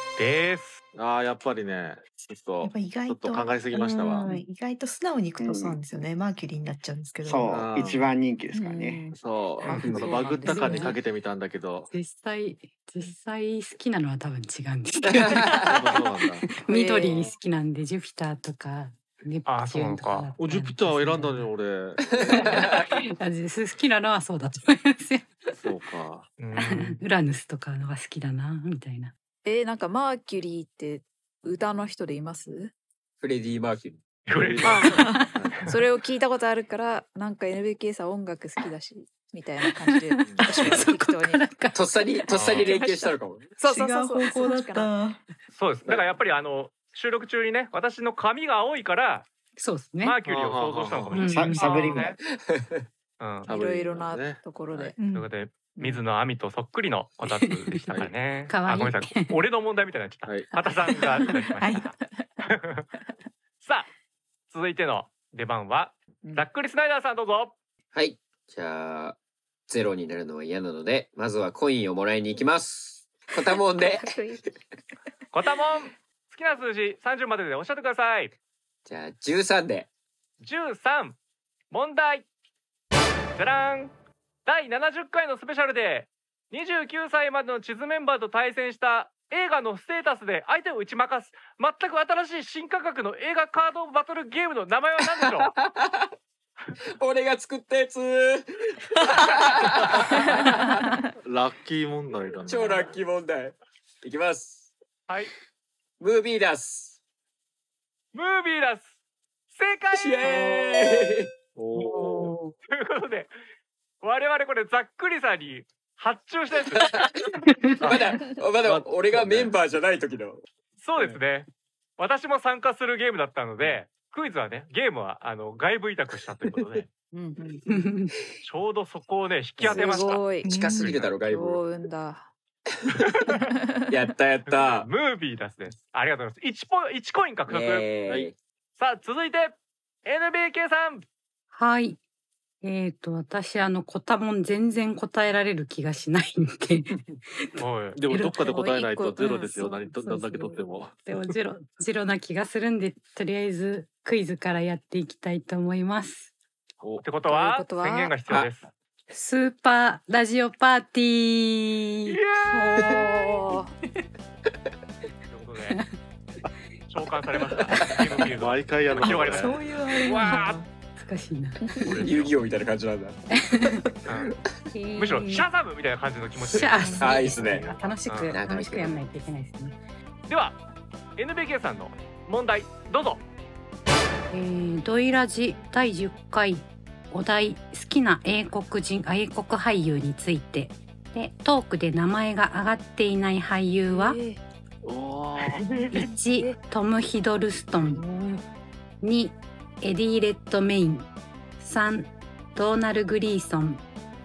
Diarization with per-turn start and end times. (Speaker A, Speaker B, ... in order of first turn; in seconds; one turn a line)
Speaker A: 0.2-0.8
Speaker B: 0.9-4.3
Speaker C: 2.6-7.5
Speaker D: 5.4-5.8
Speaker D: 7.2-9.0
Speaker B: 7.5-8.0
Speaker E: 8.5-11.0
Speaker B: 9.1-11.9
Speaker F: 9.8-10.1
Speaker G: 10.3-11.0
Speaker G: 11.9-15.8
Speaker F: 15.1-15.7
Speaker B: 15.6-16.5
Speaker G: 16.4-21.5
Speaker E: 16.7-17.3
Speaker A: 19.5-20.3
Speaker B: 20.4-22.6
Speaker F: 22.1-22.8
Speaker G: 22.6-25.3
Speaker B: 25.6-26.3
Speaker A: 26.4-26.9
Speaker G: 26.6-29.1
Speaker E: 29.4-32.7
Speaker F: 33.2-34.0
Speaker A: 34.3-35.0
Speaker B: 34.3-35.7
Speaker C: 34.7-35.3
Speaker E: 34.7-41.5
Speaker G: 39.6-43.1
Speaker B: 40.2-40.8
Speaker F: 41.8-43.5
Speaker A: 42.3-42.7
Speaker E: 43.6-44.9
Speaker C: 43.6-45.2
Speaker A: 45.5-49.3
Speaker G: 49.6-50.2
Speaker A: 50.0-52.2
Speaker B: 50.2-51.3
Speaker G: 51.1-52.1
Speaker D: 51.3-52.1
Speaker F: 52.4-52.8
Speaker A: 53.2-53.5
Speaker B: 53.5-54.9
Speaker E: 53.5-55.0
Speaker C: 55.0-55.3
Speaker A: 55.0-62.0
Speaker G: 57.4-57.8
Speaker G: 58.5-59.4
Speaker B: 60.3-60.5
Speaker E: 60.6-61.4
Speaker C: 61.6-61.9
Speaker A: 62.5-62.9
Speaker A: 63.6-63.9
Speaker A: 64.5-67.5
Speaker F: 67.9-69.2
Speaker F: 69.7-74.1
Speaker E: 73.8-74.4
Speaker A: 75.3-78.3
Speaker F: 78.9-79.9
Speaker A: 80.4-81.2
Speaker A: 81.7-82.3
Speaker A: 83.4-83.9
Speaker A: 84.5-95.5
Speaker F: 95.6-96.1
Speaker F: 97.0-100.8
Speaker E: 100.3-101.0
Speaker B: 101.2-103.0
Speaker F: 102.5-104.7
Speaker F: 106.0-107.0
Speaker A: 108.1-109.0
Speaker A: 109.5-110.9
Speaker F: 110.0-111.3
Speaker B: 111.6-112.3
Speaker G: 111.8-112.5
Speaker A: 112.7-113.3
Speaker A: 114.0-116.9
Speaker F: 117.8-120.4
Speaker B: 118.6-119.5
Speaker A: 120.8-121.5
Speaker A: 122.0-126.9
Speaker E: 127.1-127.6
Speaker G: 127.7-128.1
Speaker A: 128.4-130.2
Speaker E: 129.6-132.3
Speaker F: 129.6-131.6
Speaker C: 130.4-130.9
Speaker A: 133.0-133.3
Speaker E: 133.3-133.9
Speaker F: 133.9-134.9
Speaker A: 134.5-137.9
Speaker F: 137.5-138.3
Speaker A: 138.8-141.0
Speaker G: 141.5-142.0
Speaker G: 142.6-147.0
Speaker A: 147.6-148.0
Speaker B: 147.9-151.3
Speaker G: 148.1-148.6
Speaker E: 148.4-149.7
Speaker G: 149.2-156.3
Speaker B: 156.8-157.1
Speaker A: 157.0-158.7
Speaker E: 157.3-158.1
Speaker G: 159.1-162.2
Speaker A: 162.1-162.8
Speaker E: 162.5-163.7
Speaker A: 165.3-165.8
Speaker A: 166.9-170.6
Speaker B: 168.4-169.6
Speaker C: 169.1-170.7
Speaker G: 170.1-172.0
Speaker F: 171.8-173.2
Speaker G: 173.3-173.8
Speaker A: 174.1-174.4
Speaker G: 174.7-175.5
Speaker A: 175.0-176.9
Speaker G: 176.5-179.8
Speaker F: 177.0-177.7
Speaker A: 178.1-178.3
Speaker F: 178.3-179.0
Speaker A: 180.3-180.6
Speaker A: 181.2-183.2
Speaker G: 184.3-194.2
Speaker E: 193.9-194.4
Speaker B: 194.8-195.8
Speaker G: 195.9-198.3
Speaker E: 195.9-196.6
Speaker B: 197.8-198.2
Speaker G: 199.0-201.1
Speaker G: 201.6-203.8